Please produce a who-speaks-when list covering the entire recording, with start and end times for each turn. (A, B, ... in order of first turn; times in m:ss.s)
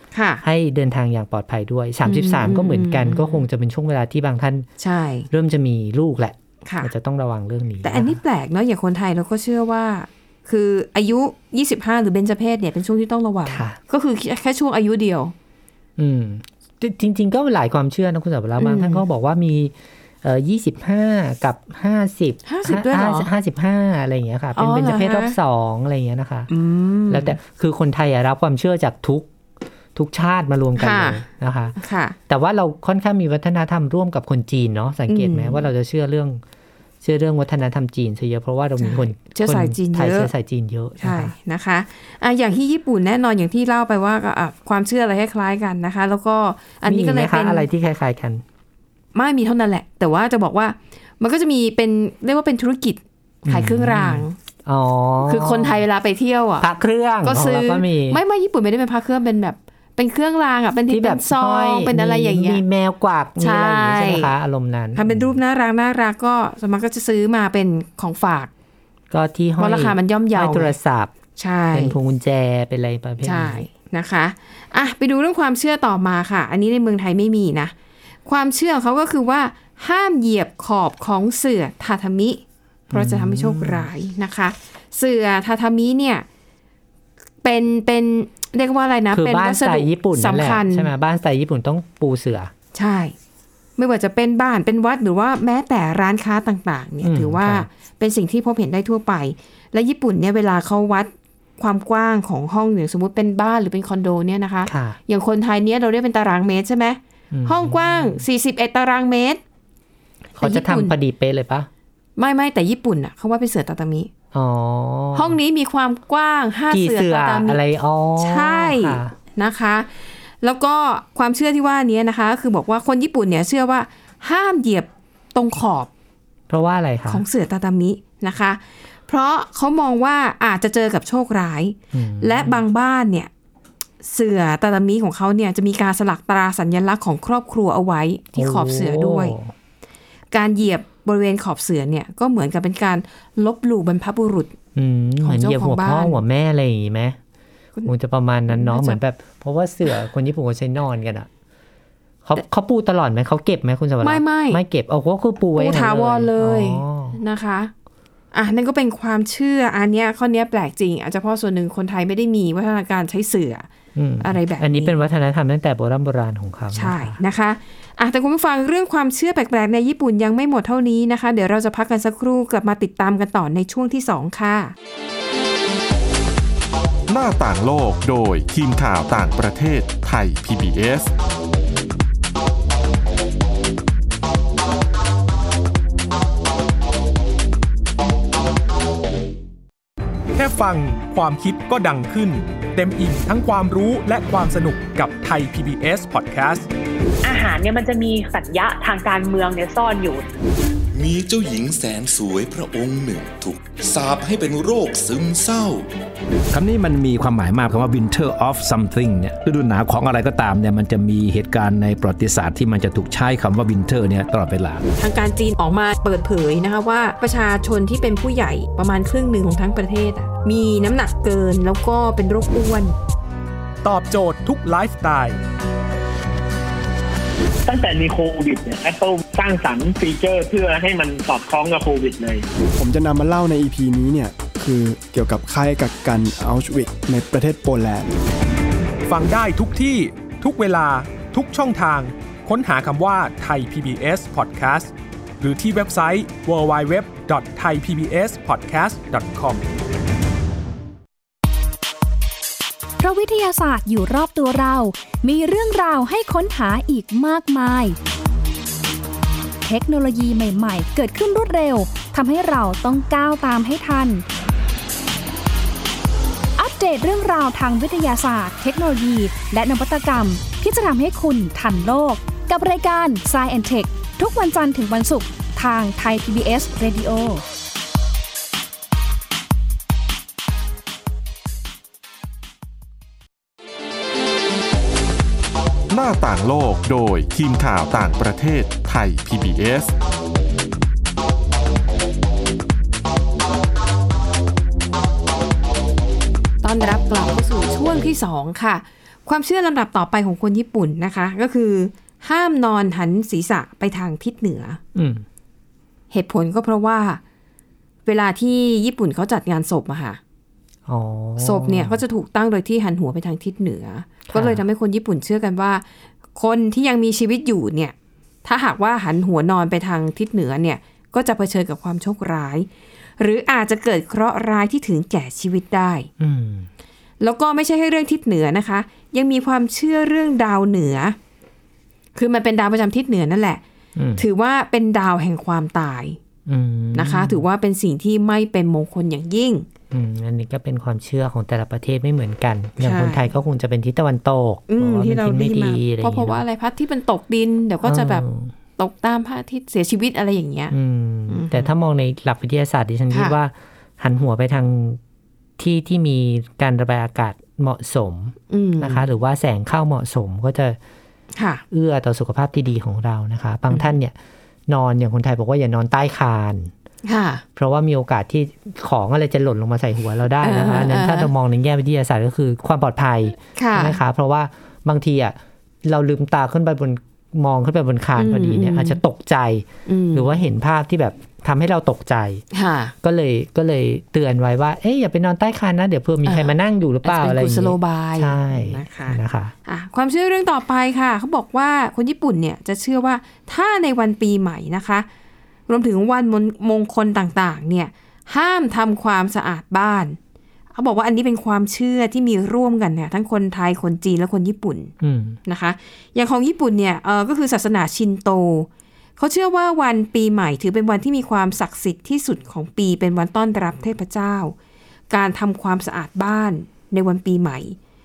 0:00.1-0:00.4 A
0:00.4-0:04.7 B
0:02.0-0:03.4 A
0:04.8-0:05.3 A
0:05.3-0:08.2 B
0:06.6-0:06.9 A
0:07.8-0:15.3 A
0:13.5-0:13.8 B
0:16.0-0:26.5 B
0:18.6-0:19.0 A
0:22.5-0:23.3 A
0:24.6-0:25.4 A
0:26.5-0:27.4 A
0:27.1-0:29.3 B
0:30.0-0:31.8 B
0:30.8-0:31.2 A
0:31.8-0:32.2 A
0:32.3-0:36.4 B
0:35.1-0:35.6 A
0:37.0-0:41.3 B
0:38.8-0:40.3 A
0:41.0-0:47.7 A
0:46.8-0:48.4 B
0:49.1-0:54.4 A
0:53.4-0:55.8 B
0:55.2-0:56.7 A
0:56.6-0:58.2 B
0:57.2-1:02.6 A
1:00.9-1:05.4 B
1:03.4-1:04.3 A
1:05.0-1:08.5 A
1:09.1-1:11.1 B
1:09.6-1:10.7 A
1:11.4-1:12.0 A
1:11.7-1:13.7 B
1:13.2-1:17.7 A
1:18.3-1:26.2 A
1:22.9-1:23.9 B
1:27.4-1:30.9 A
1:29.1-1:32.5 B
1:32.7-1:33.2 A
1:33.8-1:49.4 A
1:37.0-1:37.7 B
1:44.7-1:45.0 B
1:47.3-1:48.2 B
1:50.4-1:51.7 B
1:50.4-1:50.9 A
1:52.2-1:54.1 A
1:54.3-1:55.4 B
1:55.1-1:57.6 A
1:56.7-1:59.2 B
1:58.2-1:59.9 A
2:00.4-2:05.9 A
2:06.5-2:07.2 B
2:07.1-2:13.3 A
2:11.9-2:12.6 B
2:14.0-2:19.4 A
2:18.4-2:19.5 B
2:20.3-2:24.6 A
2:24.8-2:27.2 B
2:25.2-2:26.2 A
2:27.8-2:31.3 B
2:28.5-2:29.0 A
2:32.2-2:37.2 B
2:34.0-2:34.6 A
2:35.6-2:37.7 A
2:38.3-2:43.7 A
2:44.0-2:47.2 B
2:44.2-2:45.0 A
2:46.7-2:54.7 A
2:57.1-3:01.1 C
3:10.4-3:16.7 D
3:17.2-3:20.3 E
3:20.9-3:25.9 F
3:26.5-3:34.9 G
3:35.0-3:43.0 A
3:43.8-3:45.4 D
3:47.7-3:52.5 H
3:52.8-3:58.1 I
3:59.1-4:09.6 D
4:13.0-4:18.0 J
4:19.6-4:24.2 J
4:26.6-4:37.4 J
4:45.9-4:49.9 C
4:56.6-5:04.8 A
5:05.0-5:05.2 B
5:06.1-5:07.2 A
5:08.1-5:10.2 A
5:10.9-5:12.0 B
5:11.4-5:22.7 A
5:14.3-5:14.6 B
5:23.2-5:26.1 A
5:26.2-5:26.7 B
5:27.2-5:31.2 A
5:32.2-5:33.6 A
5:34.0-5:34.2 B
5:34.2-5:36.2 A
5:36.5-5:37.4 B
5:36.9-5:39.7 A
5:39.9-5:46.4 B
5:42.8-5:43.3 A
5:44.7-5:48.2 A
5:47.8-5:48.5 B
5:48.8-5:50.7 A
5:50.7-5:55.0 B
5:51.3-5:51.7 A
5:55.6-6:00.8 B
5:58.5-5:59.0 A
6:01.4-6:01.6 A
6:01.7-6:04.2 B
6:04.7-6:06.7 B
6:07.0-6:07.4 A
6:07.6-6:22.4 B
6:10.4-6:11.3 A
6:13.6-6:14.0 A
6:18.2-6:19.0 A
6:19.9-6:20.3 A
6:22.5-6:22.9 A
6:23.0-6:29.6 B
6:26.3-6:35.1 A
6:35.7-6:40.2 A
6:40.8-6:44.9 A
6:45.0-6:45.4 B
6:45.5-6:54.6 A
6:55.1-6:57.8 A